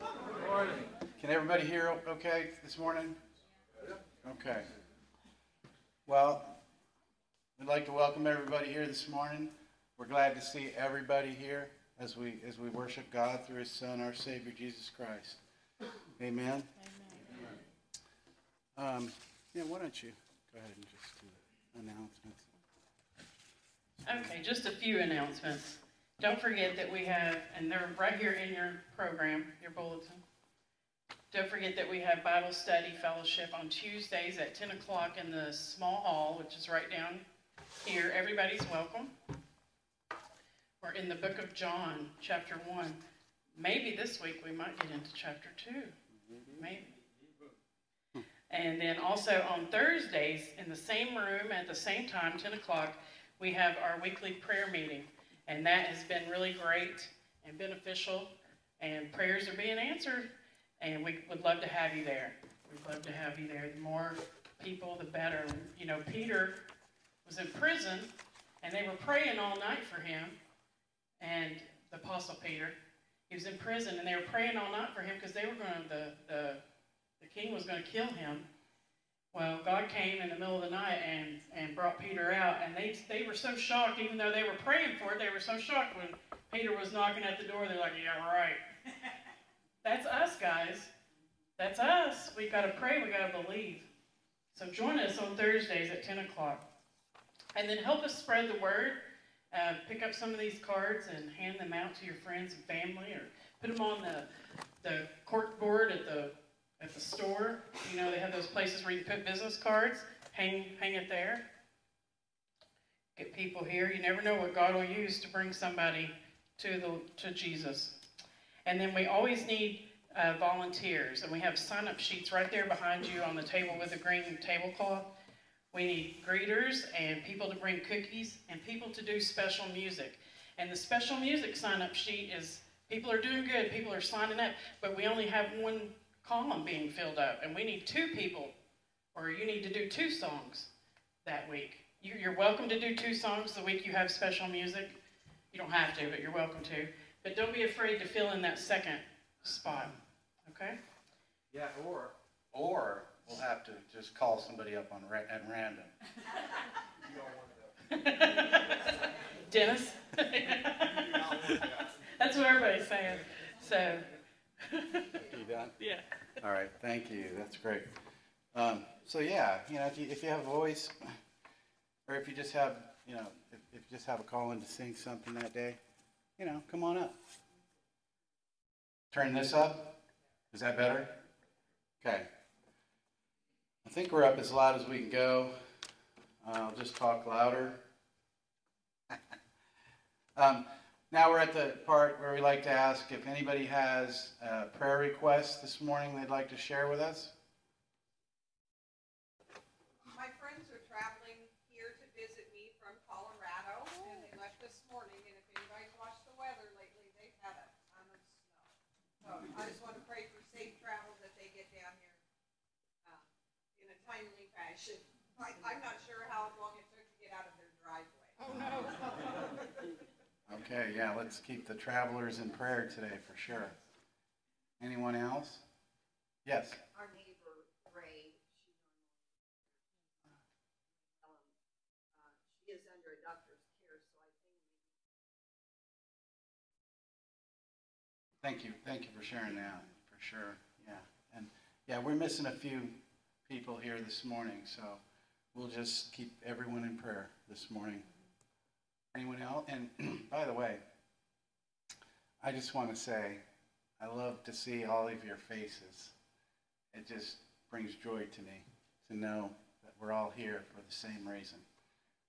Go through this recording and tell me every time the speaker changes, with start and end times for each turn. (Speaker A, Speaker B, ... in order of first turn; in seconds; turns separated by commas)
Speaker A: 0.5-3.1, Speaker A: 4.2-4.7, Speaker A: 6.0-6.6, Speaker A: 7.6-15.4, Speaker A: 16.2-16.7, Speaker A: 18.8-22.5, Speaker B: 24.0-30.2, Speaker B: 31.3-37.2, Speaker B: 37.8-39.1, Speaker B: 40.8-43.0, Speaker B: 43.5-45.9, Speaker A: 46.2-46.6, Speaker B: 46.6-46.9, Speaker B: 48.5-58.3, Speaker B: 58.8-60.3, Speaker B: 60.8-66.6, Speaker B: 67.2-68.1, Speaker B: 68.6-70.3, Speaker B: 71.2-72.7, Speaker B: 73.3-76.6, Speaker B: 77.2-78.5, Speaker B: 79.3-88.6, Speaker B: 89.8-90.9, Speaker B: 91.6-93.8, Speaker B: 94.5-96.6, Speaker B: 97.5-99.0, Speaker B: 99.5-104.2, Speaker B: 104.8-111.5, Speaker B: 113.2-118.0, Speaker B: 118.6-125.1, Speaker B: 125.7-138.5, Speaker B: 139.1-140.7, Speaker B: 141.2-145.0, Speaker B: 145.5-150.8, Speaker A: 151.5-155.9, Speaker B: 157.9-164.1, Speaker B: 164.6-165.2, Speaker A: 165.3-165.7, Speaker B: 165.8-166.0, Speaker A: 166.4-167.9, Speaker A: 168.5-171.2, Speaker A: 172.1-175.8, Speaker A: 176.4-177.2, Speaker A: 179.1-180.0, Speaker A: 180.5-181.1, Speaker A: 182.0-182.2, Speaker A: 183.8-185.5, Speaker A: 186.4-187.8, Speaker A: 189.1-189.3, Speaker A: 190.3-197.3, Speaker C: 200.0-212.2, Speaker C: 213.0-219.9, Speaker A: 218.5-218.8, Speaker A: 220.5-223.7, Speaker A: 224.8-225.6, Speaker A: 226.4-226.8, Speaker C: 226.9-229.3, Speaker C: 231.2-231.5, Speaker C: 232.2-234.9, Speaker A: 238.4-242.9, Speaker A: 243.5-245.0, Speaker A: 245.5-248.0, Speaker A: 249.1-250.8, Speaker A: 252.4-253.4, Speaker A: 254.0-256.1, Speaker A: 256.9-261.6